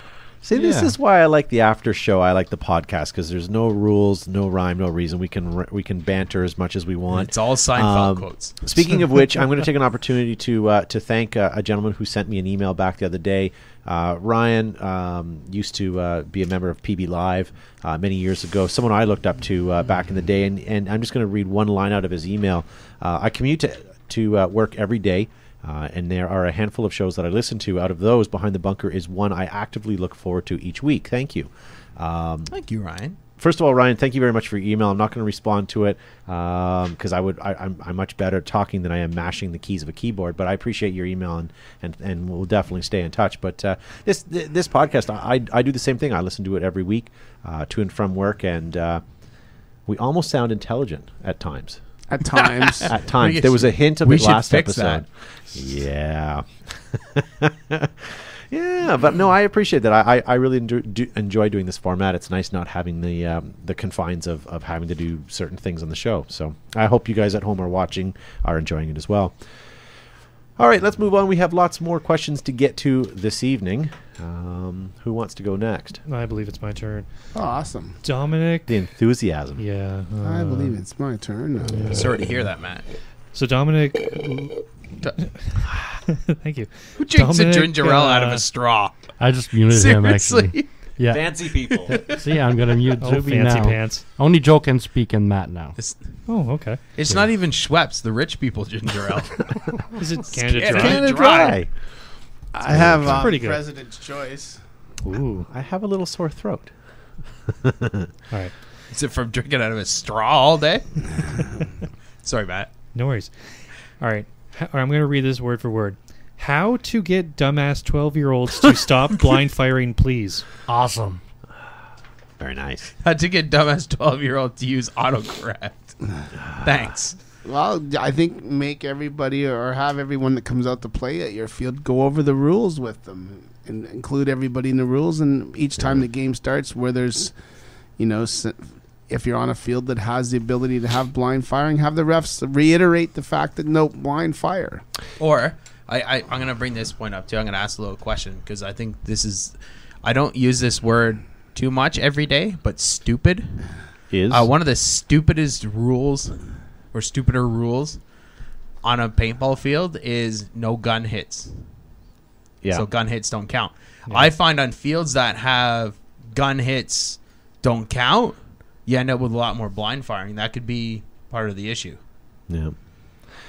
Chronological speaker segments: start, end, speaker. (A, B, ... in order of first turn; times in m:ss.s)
0:00.4-0:32.5 A
0:07.1-0:08.8 B
0:32.5-0:33.2 B
0:33.4-0:49.0 A
0:49.9-0:51.8 A
0:52.1-0:52.9 C
0:52.6-0:55.0 B
0:52.8-1:09.4 A
1:10.6-1:16.0 A
1:16.1-1:17.1 D
1:17.3-1:18.0 C
1:18.0-1:18.7 D
1:18.7-1:19.6 A
1:19.6-1:20.8 D
1:20.2-1:22.1 C
1:21.7-1:22.1 E
1:21.9-1:22.8 B
1:23.3-1:24.6 D
1:25.2-1:28.4 D
1:27.0-1:28.9 B
1:29.2-1:35.8 E
1:29.7-1:30.7 B
1:31.1-1:31.9 A
1:31.7-1:32.2 B
1:33.0-1:34.0 D
1:36.3-1:36.8 D
1:37.0-1:39.6 B
1:40.0-1:41.1 D
1:40.3-1:41.6 B
1:40.6-1:41.7 A
1:42.5-1:44.6 C
1:42.7-1:43.4 A
1:43.0-1:43.6 D
1:45.0-1:45.5 D
1:45.5-1:46.7 A
1:47.5-1:48.1 A
1:48.9-1:51.5 B
1:52.2-1:52.7 B
1:52.9-1:53.4 D
1:54.0-2:00.4 D
2:00.7-2:01.2 E
2:02.4-2:02.9 A
2:03.0-2:06.0 B
2:06.4-2:06.8 A
2:06.6-2:07.2 B
2:07.4-2:17.3 C
2:18.0-2:24.8 C
2:25.2-2:33.7 B
2:34.1-2:34.5 A
2:34.3-2:36.4 B
2:36.9-2:38.0 B
2:38.8-2:41.5 B
2:42.6-2:42.9 A
2:42.7-2:52.0 B
2:52.5-2:52.8 A